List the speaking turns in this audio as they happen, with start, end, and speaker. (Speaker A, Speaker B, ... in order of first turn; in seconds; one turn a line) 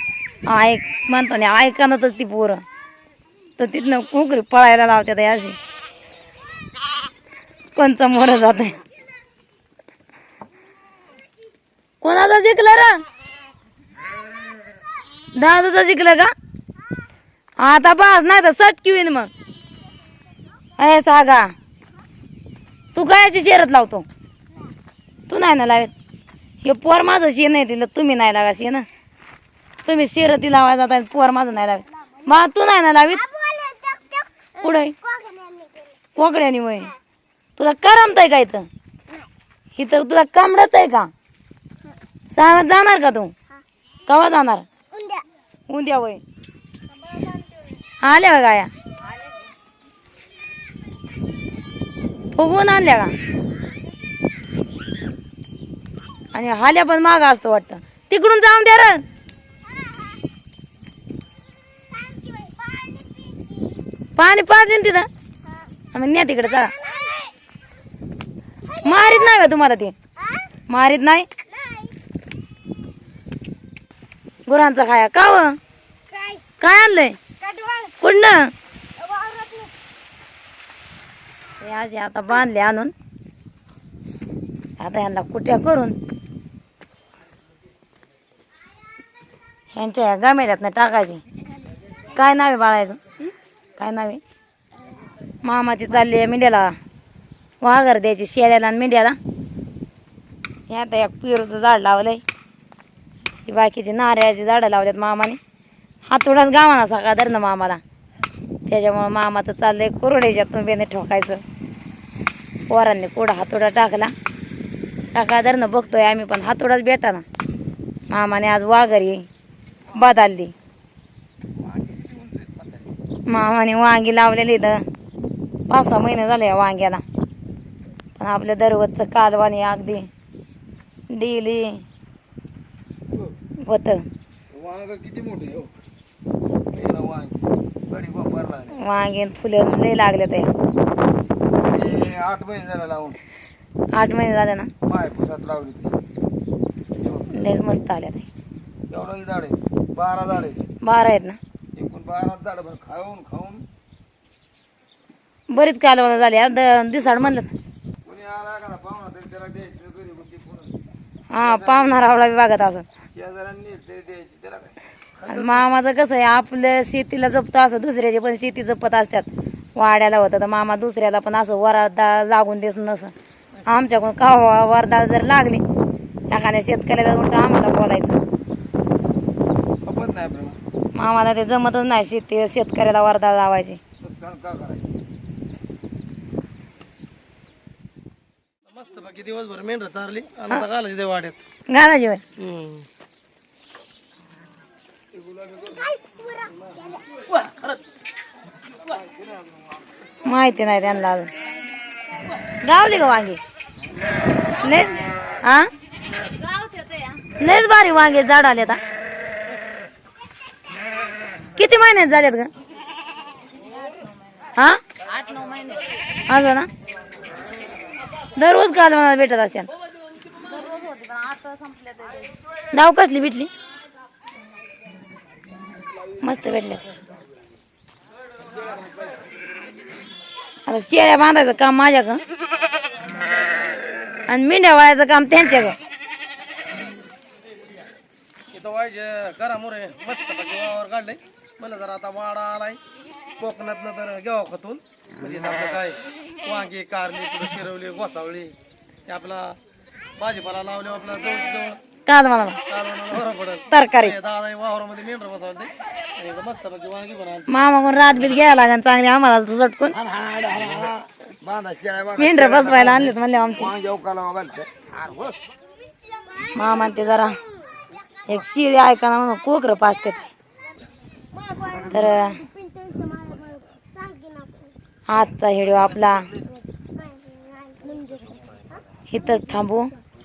Speaker A: 0.5-2.6
Speaker A: 3.6-5.6
Speaker A: 7.8-8.8
Speaker A: 12.0-13.0
Speaker A: 15.4-16.3
Speaker A: 17.6-19.3
Speaker A: 20.8-21.5
Speaker A: 22.9-24.1
Speaker A: 25.3-25.9
Speaker A: 26.6-28.9
Speaker A: 29.9-33.2
Speaker B: 31.6-32.5
Speaker B: 33.1-36.0
Speaker A: 34.6-35.0
Speaker A: 36.1-36.9
Speaker A: 37.6-38.7
Speaker A: 39.8-41.1
Speaker A: 42.3-43.3
Speaker A: 44.1-44.7
Speaker B: 44.9-45.2
Speaker A: 45.7-46.2
Speaker B: 46.9-47.9
Speaker A: 48.0-48.7
Speaker A: 52.4-53.1
Speaker B: 53.6-53.9
Speaker A: 56.3-59.0
Speaker B: 59.7-60.1
Speaker B: 61.6-63.8
Speaker A: 64.2-65.1
Speaker A: 65.9-66.7
Speaker B: 66.5-67.3
Speaker B: 68.6-69.4
Speaker A: 68.8-70.0
Speaker B: 70.2-70.5
Speaker A: 70.7-71.3
Speaker B: 71.4-72.0
Speaker A: 74.5-75.5
Speaker B: 76.1-76.5
Speaker A: 76.6-77.2
Speaker B: 77.4-78.0
Speaker A: 78.0-78.5
Speaker B: 79.0-79.7
Speaker A: 81.6-82.9
Speaker A: 84.8-86.0
Speaker A: 89.7-91.2
Speaker A: 92.1-93.0
Speaker A: 93.8-94.2
Speaker B: 94.8-95.0
Speaker A: 95.4-96.7
Speaker A: 97.6-99.2
Speaker A: 100.7-102.2
Speaker A: 103.5-105.4
Speaker A: 106.1-107.8
Speaker A: 108.7-111.4
Speaker A: 112.7-114.1
Speaker A: 115.1-117.2
Speaker A: 118.1-119.3
Speaker A: 119.9-120.5
Speaker C: 121.6-122.9
Speaker A: 123.3-124.8
Speaker A: 125.7-127.0
Speaker A: 128.2-130.1
Speaker A: 131.1-131.8
Speaker A: 133.6-134.1
Speaker C: 134.5-135.7
Speaker C: 136.7-138.8
Speaker A: 138.8-140.5
Speaker C: 141.6-143.2
Speaker A: 143.9-144.7
Speaker C: 144.8-145.9
Speaker C: 147.0-147.5
Speaker A: 147.3-148.3
Speaker C: 148.9-150.7
Speaker A: 150.8-151.4
Speaker C: 151.8-153.6
Speaker A: 155.5-157.5
Speaker C: 158.1-160.8
Speaker A: 161.3-162.8
Speaker C: 161.4-162.0
Speaker C: 163.2-165.7
Speaker A: 165.3-173.1
Speaker A: 173.7-175.6
Speaker A: 176.3-178.2
Speaker C: 179.8-180.6
Speaker A: 181.0-183.8
Speaker C: 184.0-184.9
Speaker D: 188.7-191.4
Speaker A: 191.7-192.2
Speaker D: 192.4-192.9
Speaker C: 195.2-195.7
Speaker B: 195.7-197.1
Speaker D: 197.3-197.8
Speaker C: 198.9-200.0
Speaker A: 200.2-201.3
Speaker A: 202.6-203.4
Speaker A: 204.6-205.7
Speaker A: 207.4-208.8
Speaker A: 211.6-212.5
Speaker A: 214.6-214.8
Speaker E: 215.1-215.8
Speaker A: 216.3-216.7
Speaker A: 218.4-219.7
Speaker E: 220.5-222.3
Speaker A: 222.7-223.5
Speaker A: 226.2-226.8
Speaker C: 228.4-229.3
Speaker A: 230.7-232.2
Speaker A: 234.3-235.8
Speaker D: 238.5-242.8
Speaker D: 243.4-248.5
Speaker D: 249.1-249.6
Speaker D: 250.2-251.8
Speaker A: 252.1-252.6
Speaker D: 252.7-257.5
Speaker A: 253.7-254.2
Speaker A: 257.5-260.0
Speaker C: 259.9-265.4
Speaker A: 262.2-263.7
Speaker B: 265.7-267.4
Speaker A: 266.6-267.4
Speaker A: 268.3-270.2
Speaker B: 271.3-274.8
Speaker A: 271.9-272.4
Speaker A: 275.1-276.3
Speaker C: 275.9-276.3
Speaker B: 276.4-278.8
Speaker A: 279.1-279.9
Speaker B: 279.4-279.7